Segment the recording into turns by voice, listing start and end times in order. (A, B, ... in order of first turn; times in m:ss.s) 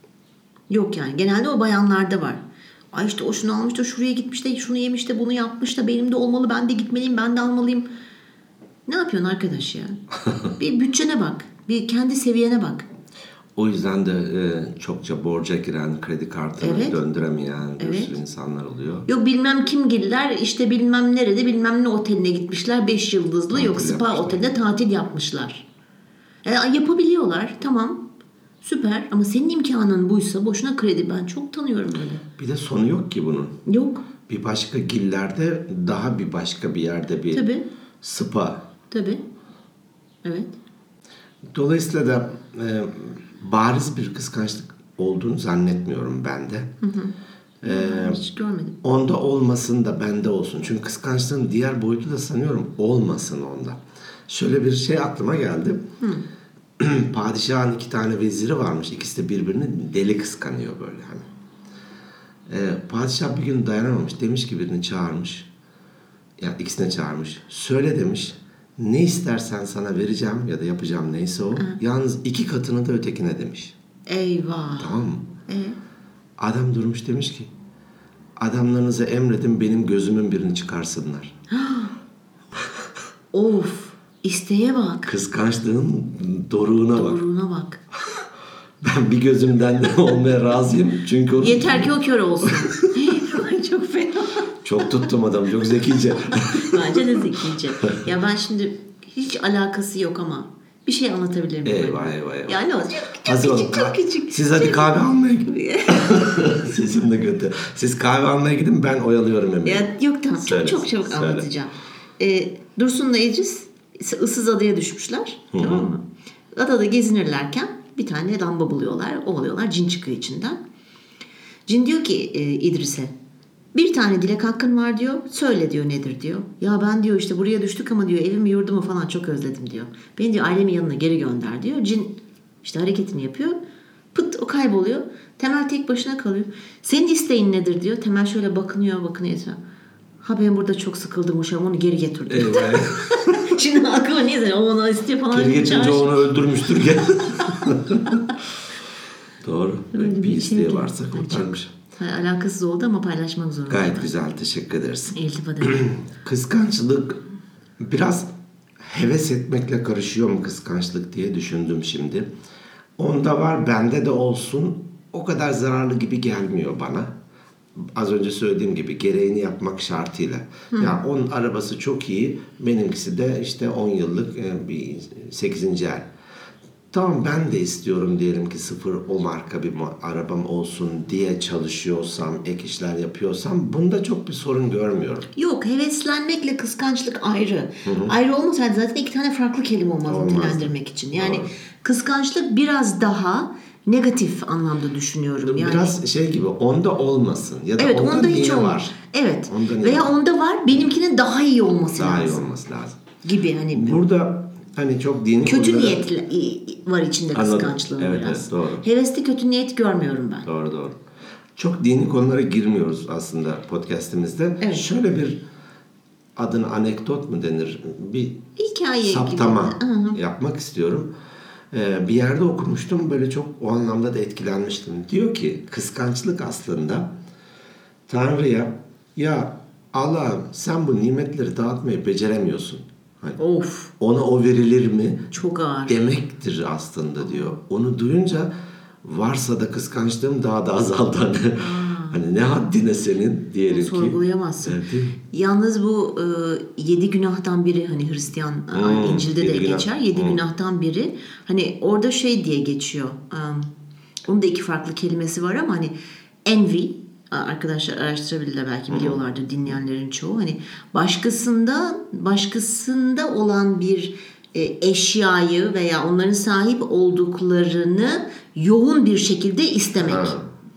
0:00.7-0:07.9 A
0:08.9-0:10.0 A
0:10.6-0:12.8 A
0:13.6-0:19.1 B
0:16.6-0:17.0 A
0:17.8-0:18.1 A
0:19.1-0:25.6 A
0:23.5-0:24.4 B
0:26.4-0:28.0 A
0:28.6-0:32.2 A
0:32.4-0:33.6 B
0:33.6-0:34.0 A
0:34.3-0:37.4 B
0:37.3-0:37.6 A
0:38.0-0:38.6 B
0:38.9-0:39.2 A
0:40.2-0:40.5 A
0:41.5-0:46.7 B
0:46.8-0:48.8 A
0:47.6-0:48.2 B
0:48.8-0:55.8 B
0:56.8-1:01.2 B
1:02.5-1:05.5 B
1:06.4-1:13.7 B
1:14.1-1:15.8 A
1:14.8-1:15.3 B
1:16.4-1:17.5 B
1:18.4-1:21.3 B
1:21.5-1:21.9 A
1:23.3-1:25.1 A
1:25.0-1:27.2 B
1:26.9-1:27.8 A
1:28.8-1:32.8 B
1:31.4-1:35.0 A
1:34.6-1:37.0 B
1:36.3-1:44.9 A
1:41.6-1:42.6 B
1:43.1-1:51.5 B
1:45.4-1:46.2 A
1:49.6-1:56.0 A
1:55.5-1:55.9 B
1:56.5-2:00.6 A
2:01.7-2:03.1 A
2:03.7-2:13.6 A
2:14.1-2:19.6 A
2:20.2-2:26.3 A
2:22.3-2:23.5 B
2:25.3-2:28.2 B
2:27.5-2:27.7 A
2:29.4-2:31.7 B
2:29.9-2:34.1 A
2:33.7-2:37.2 B
2:35.1-2:35.8 A
2:37.8-2:42.3 B
2:43.0-2:47.1 B
2:47.8-2:56.1 B
2:56.9-3:05.3 B
3:05.3-3:15.9 A
3:07.8-3:08.1 B
3:10.0-3:11.5 B
3:15.4-3:18.9 B
3:17.8-3:22.5 A
3:19.5-3:20.1 B
3:22.0-3:23.0 B
3:23.2-3:24.0 A
3:23.7-3:26.0 B
3:25.4-3:30.5 A
3:27.3-3:28.8 B
3:30.4-3:31.0 B
3:31.6-3:35.4 B
3:36.4-3:38.5 B
3:38.6-3:40.2 A
3:39.0-3:41.1 B
3:41.7-3:47.1 B
3:48.1-3:53.4 B
3:53.4-3:53.9 A
3:54.0-3:55.3 B
3:55.3-3:56.0 A
3:55.9-3:58.5 B
3:59.0-4:05.2 B
4:01.6-4:02.2 A
4:03.7-4:04.8 A
4:05.3-4:13.7 A
4:08.7-4:10.4 B
4:14.3-4:15.9 A
4:16.4-4:30.4 A
4:18.9-4:19.2 B
4:30.0-4:30.4 B